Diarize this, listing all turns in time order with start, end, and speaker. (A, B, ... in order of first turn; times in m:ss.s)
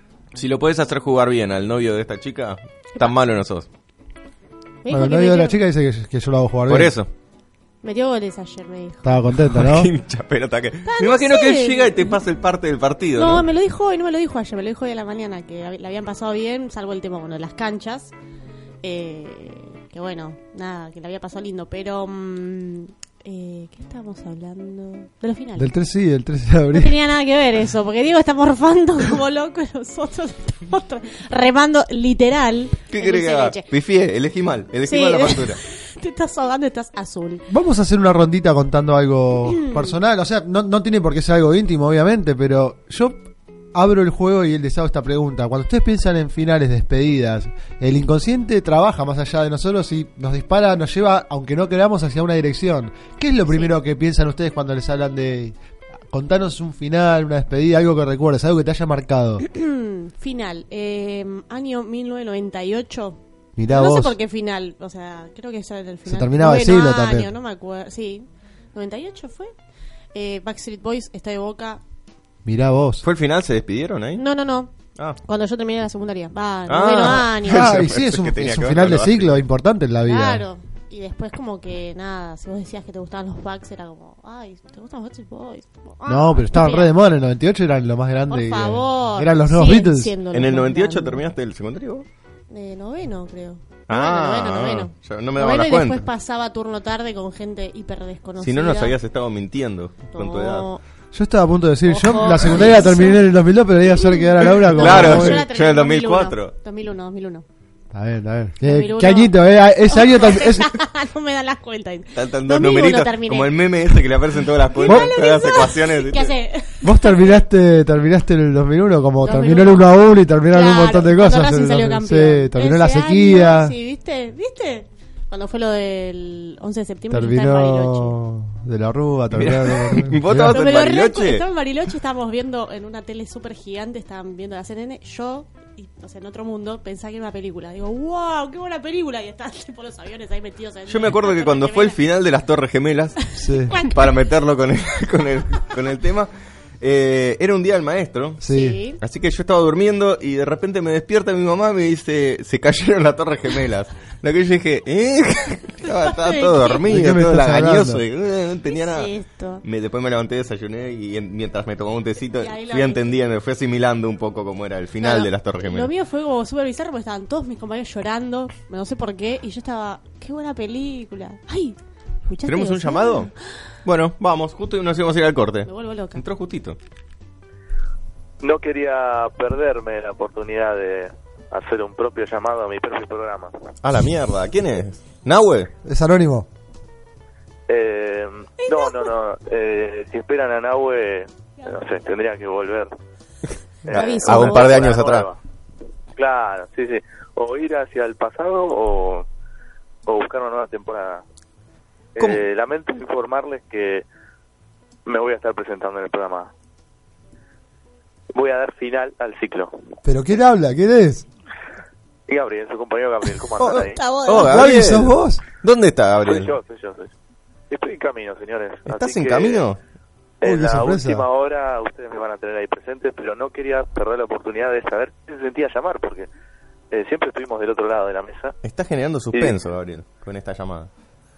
0:00.3-0:03.7 A
0:04.8-0:05.6 B
0:04.9-0:07.0 C
0:06.7-0:07.1 A
0:07.8-0:09.1 B
0:09.0-0:09.9 C
0:09.3-0:13.5 A
0:10.8-0:12.2 B
0:13.2-0:18.1 B
0:18.8-0:25.6 B
0:25.6-0:27.0 C
0:26.7-0:33.7 B
0:32.9-0:35.6 A
0:34.8-0:37.4 B
0:37.5-0:55.6 C
0:56.1-0:59.4 C
0:59.5-1:03.2 B
1:03.6-1:04.2 C
1:03.7-1:09.5 B
1:06.1-1:07.3 C
1:10.1-1:11.8 B
1:12.4-1:13.0 C
1:13.0-1:14.2 A
1:14.2-1:17.6 B
1:16.7-1:19.4 A
1:17.4-1:20.5 C
1:20.1-1:26.9 B
1:26.1-1:30.2 C
1:28.3-1:31.2 B
1:30.3-1:32.1 A
1:32.5-1:39.0 B
1:33.9-1:36.1 A
1:38.4-1:40.7 A
1:40.1-1:40.8 B
1:41.1-1:45.5 C
1:41.9-1:43.2 B
1:43.9-1:47.4 B
1:44.6-1:46.6 A
1:47.9-1:50.8 C
1:48.6-1:54.0 B
1:52.1-1:56.4 A
1:54.7-1:57.4 B
1:54.8-1:55.2 C
1:56.8-2:03.8 C
1:59.2-1:59.9 B
2:00.5-2:08.2 B
2:07.1-2:10.6 C
2:09.3-2:11.5 A
2:10.5-2:22.0 B
2:20.9-2:23.2 A
2:23.4-2:23.8 C
2:23.7-2:24.2 B
2:23.7-2:26.3 A
2:26.8-2:28.4 A
2:28.4-2:28.8 C
2:28.5-2:29.0 B
2:29.0-2:39.1 A
2:36.0-2:36.8 B
2:36.9-2:38.0 C
2:38.7-2:39.6 B
2:39.6-2:45.9 A
2:42.3-2:43.2 B
2:45.0-2:53.3 B
2:52.4-2:53.3 A
2:53.8-2:56.8 A
2:55.6-2:56.2 B
2:58.4-3:03.5 D
3:03.8-3:05.7 A
3:05.8-3:06.5 C
3:07.7-3:12.9 D
3:08.6-3:09.1 B
3:13.8-3:15.4 D
3:13.9-3:15.3 A
3:13.9-3:14.7 B
3:16.2-3:19.3 D
3:20.1-3:21.2 D
3:22.2-3:24.0 D
3:25.1-3:26.5 D
3:28.4-3:29.7 D
3:30.0-3:31.2 C
3:32.3-3:34.0 D
3:33.6-3:36.6 A
3:33.7-3:34.7 B
3:34.3-3:35.4 C
3:36.2-3:37.1 D
3:37.7-3:39.7 D
3:38.9-3:39.8 A
3:40.4-3:46.3 D
3:40.4-3:41.3 C
3:46.9-3:48.5 D
3:48.6-3:50.9 A